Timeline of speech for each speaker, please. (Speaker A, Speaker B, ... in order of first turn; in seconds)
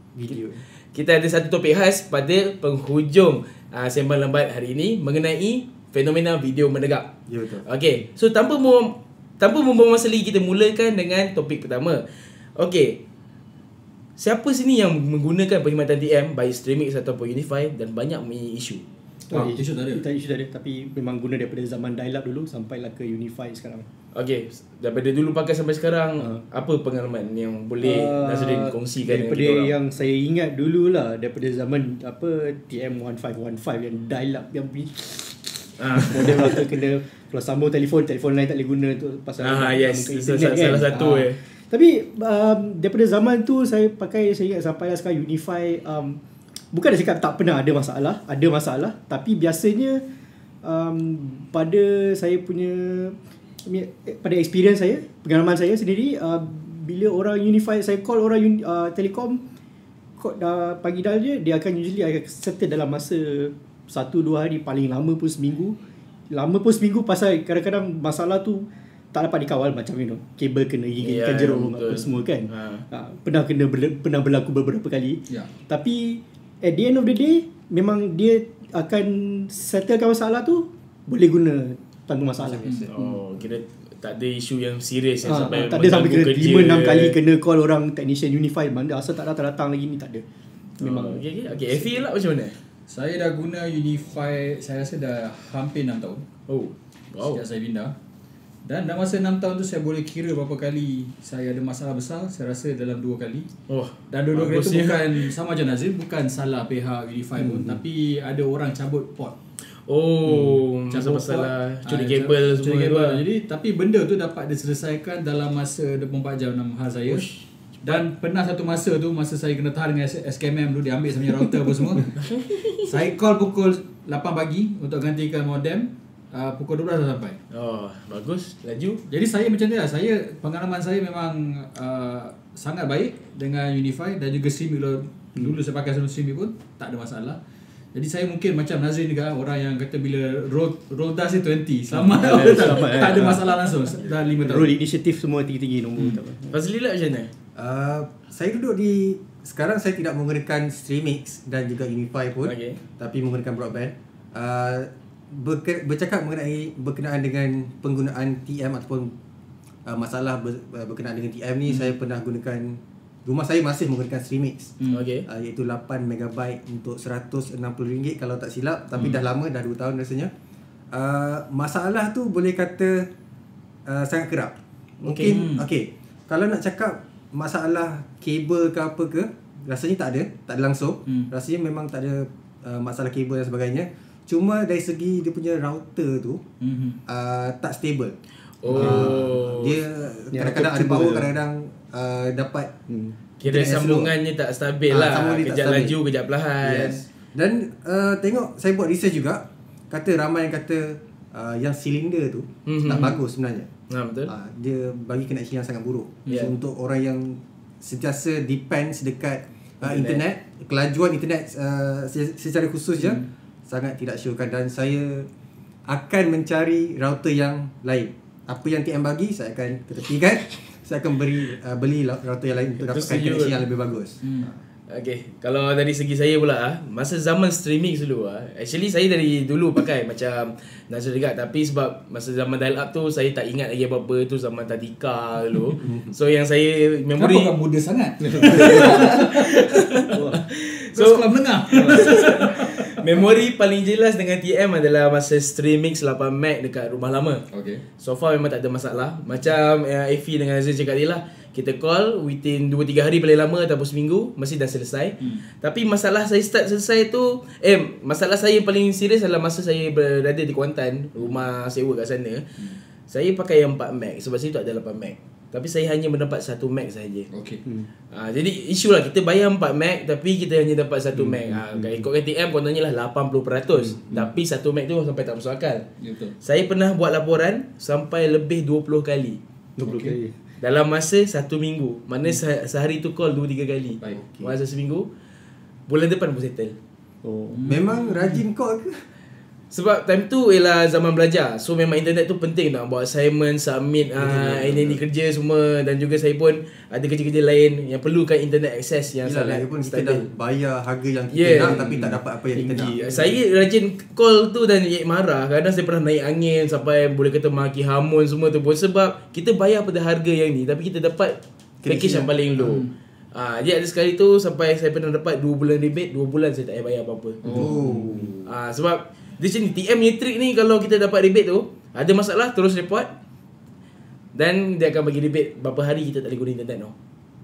Speaker A: 0.1-0.6, 7.3-7.6, 147.6-159.1, 159.8-164.8, 165.3-170.3, 170.9-173.1, 173.8-186.4, 187.1-188.1, 188.7-192.7, 193.4-194.1, 194.9-196.0, 196.6-203.7, 204.3-215.3, 215.9-224.2, 235.8-236.1, 284.1-284.5, 287.6-289.1, 294.2-295.0, 299.2-303.0, 311.8-312.3, 317.4-318.5
Speaker B: 0.9-7.1, 7.6-13.0, 14.2-18.8, 24.1-29.7, 35.8-36.6, 39.4-41.4, 71.0-72.8, 82.8-87.2, 90.8-92.6, 96.5-97.4, 103.7-105.3, 109.8-113.2, 117.1-118.0, 122.1-122.9, 127.5-129.0, 146.5-147.3, 152.4-152.8, 164.9-165.2, 175.0-175.4, 188.6-189.8, 193.4-197.0, 202.7-203.2, 203.9-204.3, 209.8-210.2, 222.9-223.6, 224.9-237.5, 238.4-247.4, 248.0-262.4, 263.1-267.3, 268.1-275.8, 276.4-279.4, 280.6-285.1, 285.9-286.8, 289.7-300.2, 301.3-301.9, 303.0-317.4, 318.4-323.1, 324.3-326.9
Speaker C: 19.3-23.9, 27.8-50.0, 50.6-59.4, 60.2-65.7, 66.3-83.2, 85.2-90.2, 90.8-92.0, 107.4-107.8, 141.9-143.6, 144.4-146.6, 188.8-189.1, 190.3-191.3, 192.9-193.2, 238.3-238.9, 240.1-240.4, 241.8-242.1, 271.1-272.1, 273.8-274.3, 279.8-280.3, 287.2-287.6, 302.5-303.4
Speaker D: 19.3-20.0, 92.9-96.2, 97.2-97.9, 98.7-103.5, 104.1-109.3, 110.9-117.2, 117.8-122.1, 122.8-127.4, 129.1-137.4, 137.9-144.8, 175.2-175.6, 186.6-187.0, 213.0-213.2, 224.2-224.5, 237.2-239.7, 240.9-242.8, 247.5-247.8, 267.3-267.6, 276.0-276.3, 279.8-280.2, 287.5-288.4, 301.9-302.1, 312.6-312.9, 317.4-318.0